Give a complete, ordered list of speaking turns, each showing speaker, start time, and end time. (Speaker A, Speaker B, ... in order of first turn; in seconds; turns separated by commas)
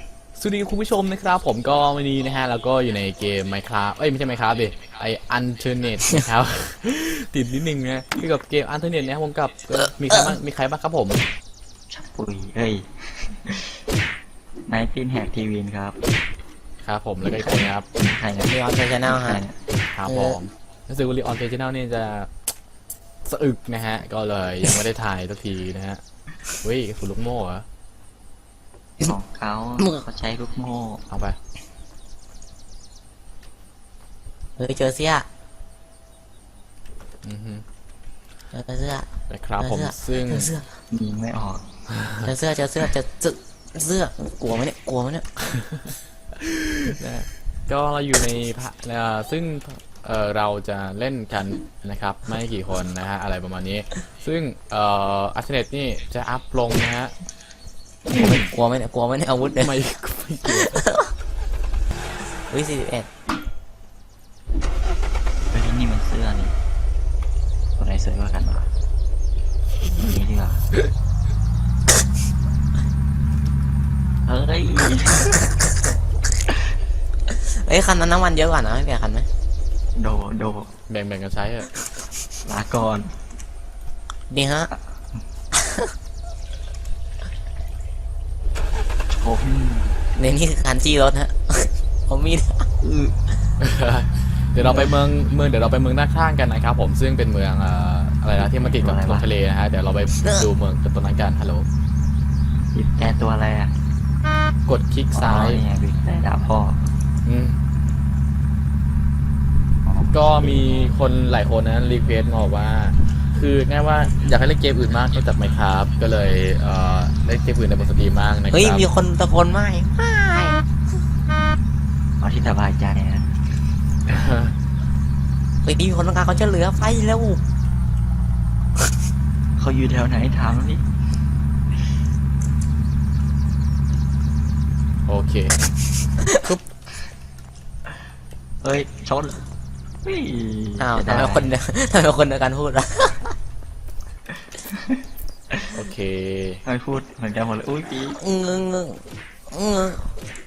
Speaker A: 0.4-11.2, Speaker B: 11.9-13.8, Speaker B: 14.7-16.0, Speaker A: 16.8-17.9, Speaker B: 17.2-19.5, Speaker C: 18.5-19.4, Speaker A: 19.9-22.4, Speaker C: 20.1-20.4, Speaker A: 23.2-26.0, Speaker A: 26.6-27.6, Speaker B: 29.0-31.0, Speaker A: 31.1-31.4, Speaker C: 34.6-35.3, Speaker A: 37.2-37.6, Speaker C: 38.5-39.1, Speaker A: 39.3-40.5, Speaker C: 39.6-40.7, Speaker B: 40.9-41.7, Speaker A: 42.0-42.3, Speaker C: 42.2-45.3, Speaker A: 45.6-45.9, Speaker A: 46.4-57.1, Speaker A: 58.1-58.5, Speaker C: 58.1-59.8, Speaker A: 59.6-60.8, Speaker C: 60.5-61.1, Speaker C: 62.5-63.1, Speaker B: 65.5-66.5, Speaker B: 67.8-68.6, Speaker B: 69.8-70.6, Speaker B: 74.3-75.5, Speaker C: 77.3-79.3, Speaker B: 80.0-80.7, Speaker A: 80.9-81.7, Speaker B: 82.4-83.1, Speaker C: 84.3-84.7, Speaker C: 85.6-85.9, Speaker B: 89.2-90.0, Speaker C: 90.2-93.1, Speaker A: 93.6-101.7, Speaker B: 98.4-99.3, Speaker C: 100.2-100.5, Speaker B: 102.7-103.7, Speaker A: 104.7-105.6, Speaker B: 105.1-106.9, Speaker A: 107.3-107.6, Speaker B: 109.8-110.7, Speaker A: 110.1-118.9, Speaker C: 118.5-120.7, Speaker B: 122.2-123.4, Speaker A: 124.1-124.5, Speaker C: 125.6-127.4, Speaker B: 129.6-130.8, Speaker A: 135.1-135.5, Speaker C: 136.2-136.5, Speaker B: 138.6-139.4, Speaker B: 140.0-141.5, Speaker C: 140.8-143.3, Speaker B: 144.6-145.8, Speaker A: 145.7-146.6, Speaker B: 146.7-148.2, Speaker C: 148.2-150.1